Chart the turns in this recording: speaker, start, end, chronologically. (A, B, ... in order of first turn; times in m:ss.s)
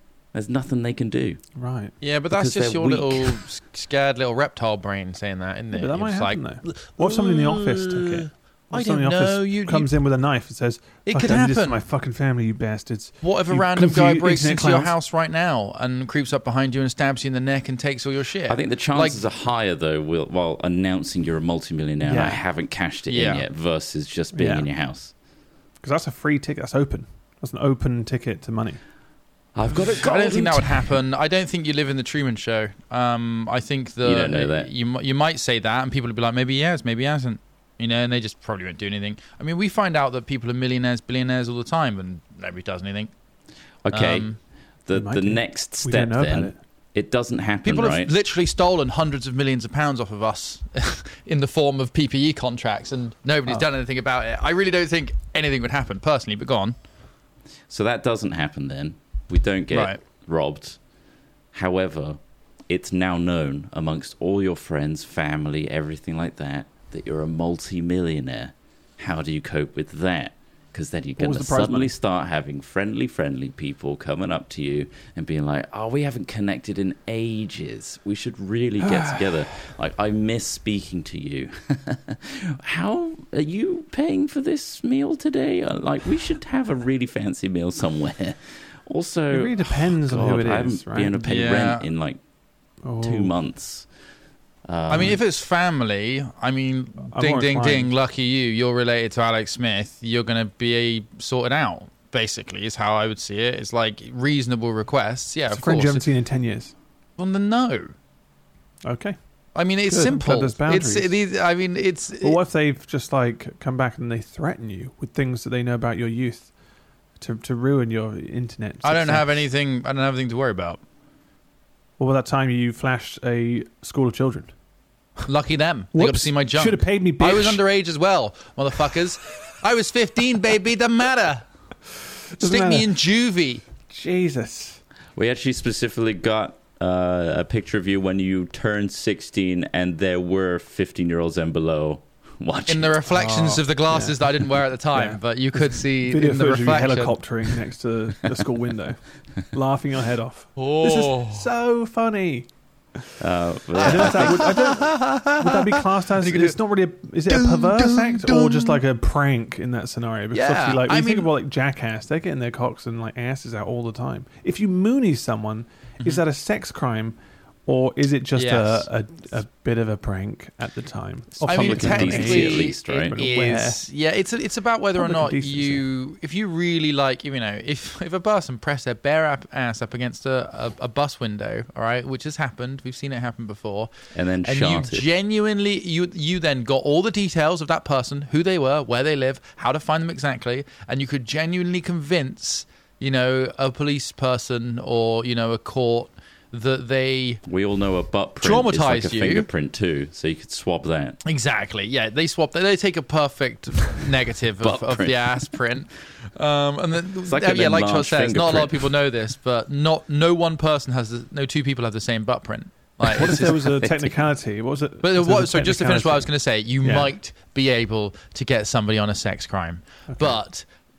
0:00.3-0:01.4 A
0:01.6-0:01.9 B
0:02.0-0:09.9 C
0:02.3-0:03.4 A
0:05.7-0:14.9 B
0:11.0-0:11.8 C
0:13.2-0:19.2 C
0:18.5-0:25.1 A
0:22.0-0:22.4 B
0:23.1-0:23.4 C
0:24.3-0:24.7 B
0:25.8-0:28.8 B
0:29.5-0:30.9 A
0:29.7-0:43.1 C
0:34.0-0:34.7 A
0:43.8-0:44.3 A
0:43.9-0:44.4 C
0:44.8-0:48.1 A
0:44.9-0:46.6 B
0:47.6-0:56.7 C
0:57.7-1:00.8 A
0:59.7-1:00.0 C
1:01.5-1:32.2 A
1:11.2-1:11.9 B
1:18.8-1:19.4 B
1:29.3-1:31.3 B
1:31.2-1:31.8 C
1:32.8-1:33.3 B
1:33.0-1:33.9 A
1:34.6-1:35.2 A
1:34.9-1:46.0 C
1:37.0-1:37.9 B
1:45.5-1:46.7 B
1:47.2-1:47.9 C
1:48.8-1:49.2 B
1:49.5-1:52.4 C
1:49.9-1:51.2 B
1:52.2-1:56.5 B
1:57.2-1:59.3 B
1:58.8-2:00.8 C
2:02.0-2:04.5 B
2:05.3-2:11.4 C
2:05.9-2:07.6 B
2:12.3-2:12.9 B
2:12.4-2:13.6 C
2:13.9-2:14.8 B
2:15.2-2:23.0 A
2:22.7-2:27.5 C
2:23.1-2:24.2 B
2:24.9-2:33.1 B
2:30.6-2:31.5 C
2:33.2-2:34.7 A
2:33.8-2:36.6 C
2:33.8-2:53.8 B
2:37.3-2:38.8 C
2:40.3-2:41.3 C
2:48.3-2:48.8 C
2:51.4-2:53.2 A
2:51.4-3:03.9 C
2:55.0-2:55.8 B
3:04.1-3:05.1 A
3:04.4-3:17.4 C
3:17.4-3:21.2 A
3:18.4-3:19.5 C
3:21.2-3:34.0 C
3:24.6-3:25.5 A
3:27.2-3:28.9 A
3:33.0-3:36.3 B
3:35.0-3:40.6 C
3:36.8-3:37.1 B
3:40.1-3:40.4 B